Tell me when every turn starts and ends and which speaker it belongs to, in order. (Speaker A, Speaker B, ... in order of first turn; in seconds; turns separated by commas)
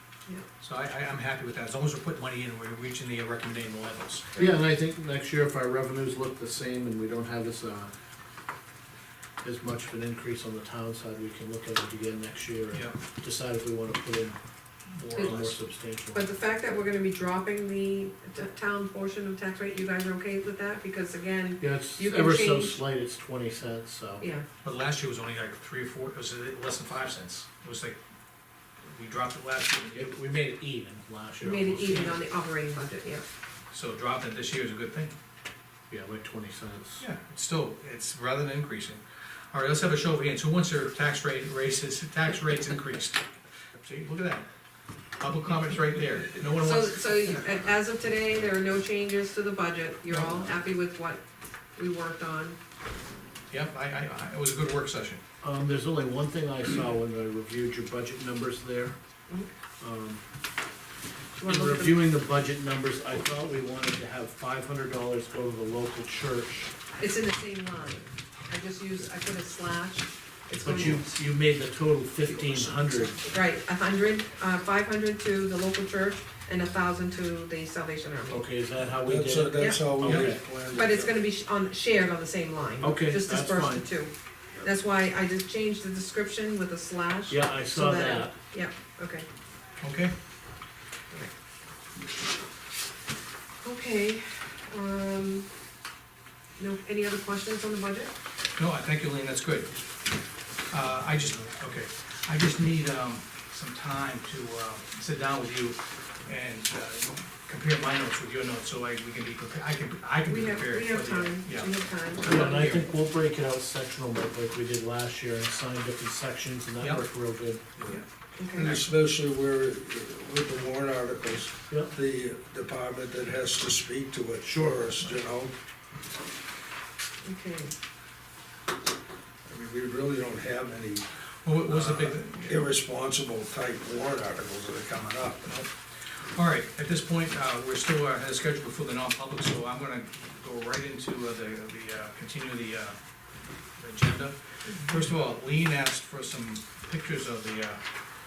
Speaker A: 0.6-4.3, Speaker B: 4.4-7.9, Speaker B: 9.4-14.4, Speaker A: 14.9-15.6, Speaker B: 15.1-16.3, Speaker C: 16.1-22.8, Speaker B: 21.6-24.3, Speaker C: 24.2-24.5, Speaker A: 24.6-28.0, Speaker A: 28.8-30.1, Speaker B: 29.9-32.2, Speaker C: 31.4-33.2, Speaker A: 33.7-35.1, Speaker B: 35.9-37.0, Speaker A: 37.0-39.0, Speaker A: 39.5-44.5, Speaker A: 45.2-47.6, Speaker C: 46.6-51.2, Speaker B: 50.1-50.5, Speaker C: 51.8-52.6, Speaker A: 53.5-55.2, Speaker B: 55.4-59.0, Speaker B: 59.8-60.2, Speaker C: 61.4-62.0, Speaker B: 61.4-66.8, Speaker C: 67.0-71.1, Speaker B: 70.6-73.2, Speaker C: 73.2-78.4, Speaker B: 78.3-80.4, Speaker D: 79.0-81.2, Speaker C: 79.6-79.9, Speaker A: 80.0-80.4, Speaker C: 80.7-89.3, Speaker B: 82.8-83.9, Speaker B: 87.3-88.3, Speaker A: 89.8-90.2, Speaker C: 93.6-95.5, Speaker C: 96.6-98.1, Speaker A: 98.5-99.8, Speaker A: 100.7-112.9, Speaker C: 110.3-112.6, Speaker B: 112.2-117.7, Speaker A: 117.8-118.8, Speaker C: 118.4-118.7, Speaker D: 118.6-125.5, Speaker B: 124.4-124.9, Speaker C: 127.2-127.7, Speaker D: 129.4-131.1, Speaker A: 131.4-132.7, Speaker D: 131.6-135.6, Speaker A: 136.2-142.9, Speaker A: 143.8-147.8